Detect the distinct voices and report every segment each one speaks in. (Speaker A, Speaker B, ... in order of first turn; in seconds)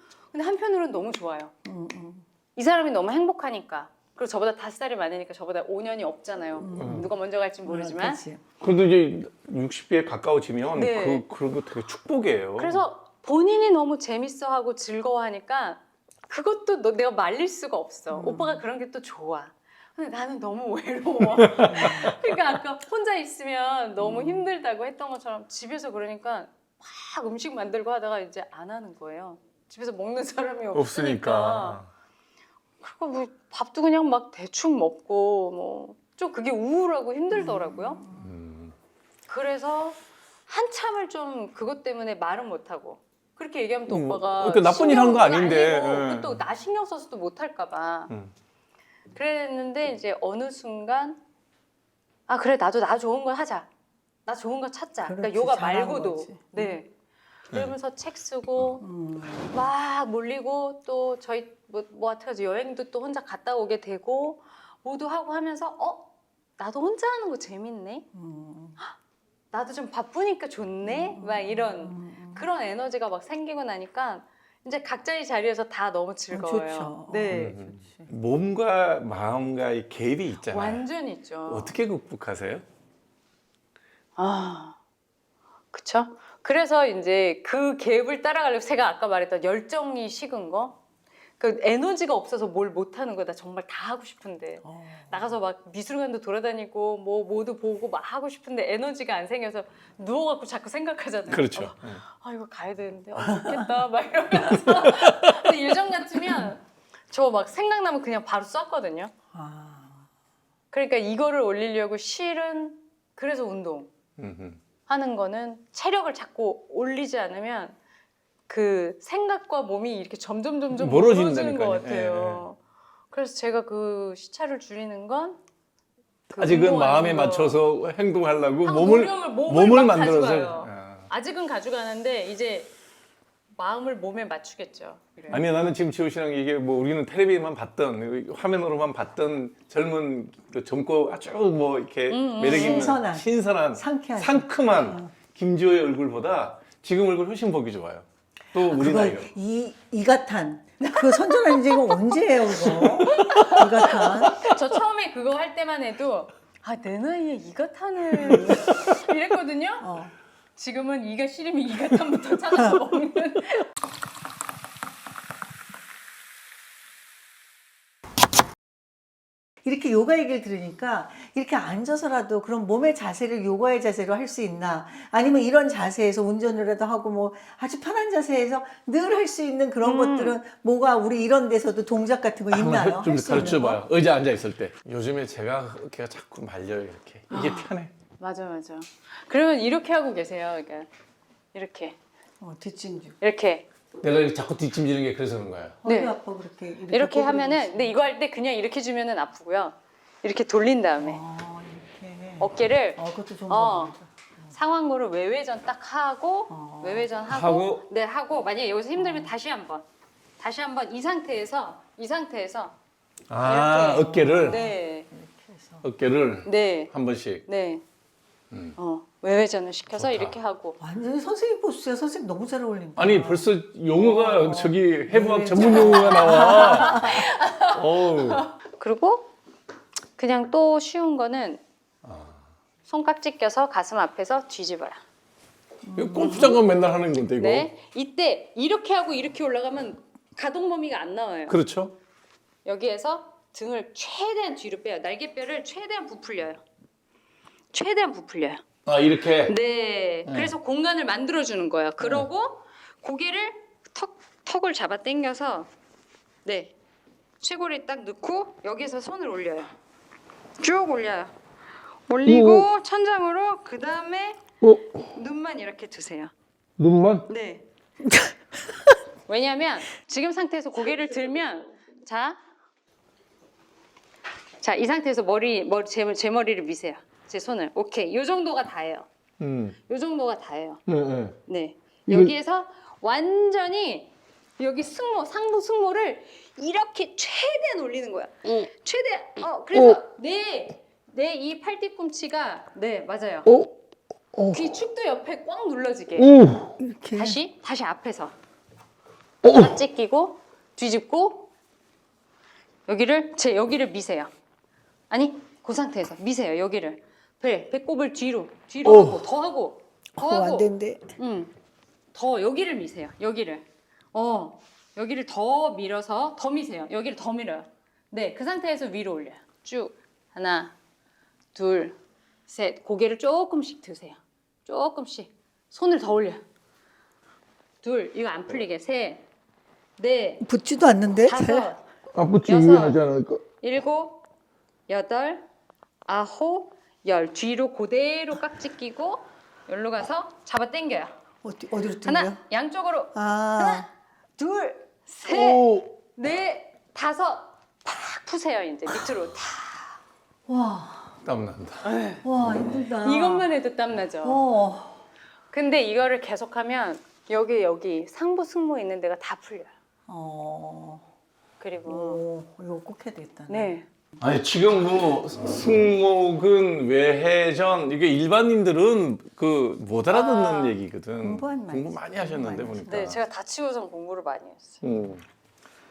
Speaker A: 0.3-1.5, 2.5-8.2, 10.7-11.3, 12.6-31.8, 32.8-38.0, 39.3-48.1, 49.1-51.2, 52.3-53.7, 54.2-56.9, 57.5-58.8, 59.5-68.1, 69.5-77.5, 80.5-81.8, 84.2-84.8, 85.7-90.8, 91.4-109.1, 110.7-113.9, 114.9-117.8, 118.5-122.6, 123.1-125.4, 126.3-127.6, 128.6-132.7, 133.6-135.4, 142.1-143.0, 153.1-159.9, 160.6-163.7, 179.8-180.4, 183.1-183.6, 187.3-190.9, 191.5-192.0, 193.2-193.7, 195.8-196.1, 196.9-201.2, 202.4-204.0, 204.5-209.8, 210.4-212.8, 213.4-215.1, 216.4-216.9, 217.4-217.8, 218.8-220.8, 225.6-229.3, 230.2-231.6, 232.9-235.0, 236.1-236.6, 237.4-241.6, 242.6-246.6, 247.7-248.6, 249.4-255.7, 256.4-256.7, 257.4-259.7, 260.6-261.3, 262.1-266.3, 267.3-267.6, 269.2-272.4, 274.6-279.1, 279.8-280.8, 281.4-293.7, 294.4-296.6, 297.1-298.3, 299.4-301.5, 302.9-304.3, 305.1-311.5, 312.1-320.7, 321.5-322.0, 322.5-326.4, 327.8-329.2, 330.0-330.4, 331.2-334.2, 334.9-335.4, 336.1-341.1, 342.0-350.0, 351.8-354.4, 355.5-359.7, 361.6-362.2, 363.5-363.9, 370.1-370.8, 372.9-374.8
Speaker B: 1.6-2.2, 6.6-7.1, 7.6-8.4, 18.1-18.6, 21.6-22.1, 24.0-24.5, 37.3-38.3, 55.0-56.8, 58.8-59.6, 68.1-68.8, 70.8-72.5, 76.3-78.1, 94.6-95.3, 103.2-103.6, 109.3-110.1, 142.4-145.1, 148.6-154.4, 159.8-160.1, 162.5-162.8, 169.6-183.8, 192.4-193.2, 195.8-198.0, 201.0-204.5, 206.5-207.1, 208.9-209.3, 213.9-215.8, 220.8-227.3, 235.8-236.6, 268.0-268.9, 296.6-297.4, 310.1-311.1, 330.4-331.7, 341.4-342.4, 343.1-343.9, 350.5-351.2, 352.2-353.5, 354.2-355.0, 360.1-361.0, 361.9-363.8, 371.2-373.2
Speaker C: 6.7-7.1, 8.6-12.8, 21.3-22.4, 30.7-31.9, 38.1-38.7, 43.9-46.4, 77.3-80.9, 81.5-82.6, 101.3-102.0, 104.8-105.5, 114.2-114.6, 120.7-122.4, 126.3-131.1, 135.3-149.3, 152.8-154.4, 182.5-187.9, 194.0-195.8, 207.3-207.8, 213.3-214.6, 215.8-217.4, 218.5-218.8, 219.9-220.4, 222.9-227.1, 227.7-228.5, 232.0-232.4, 236.0-237.7, 241.5-241.9, 248.8-249.5, 250.2-250.5, 252.0-252.3, 262.2-262.7, 266.8-267.3, 279.4-279.8, 280.9-281.3, 282.1-282.3, 296.2-296.6, 332.1-333.4, 351.2-351.9, 364.2-373.2, 374.8-375.2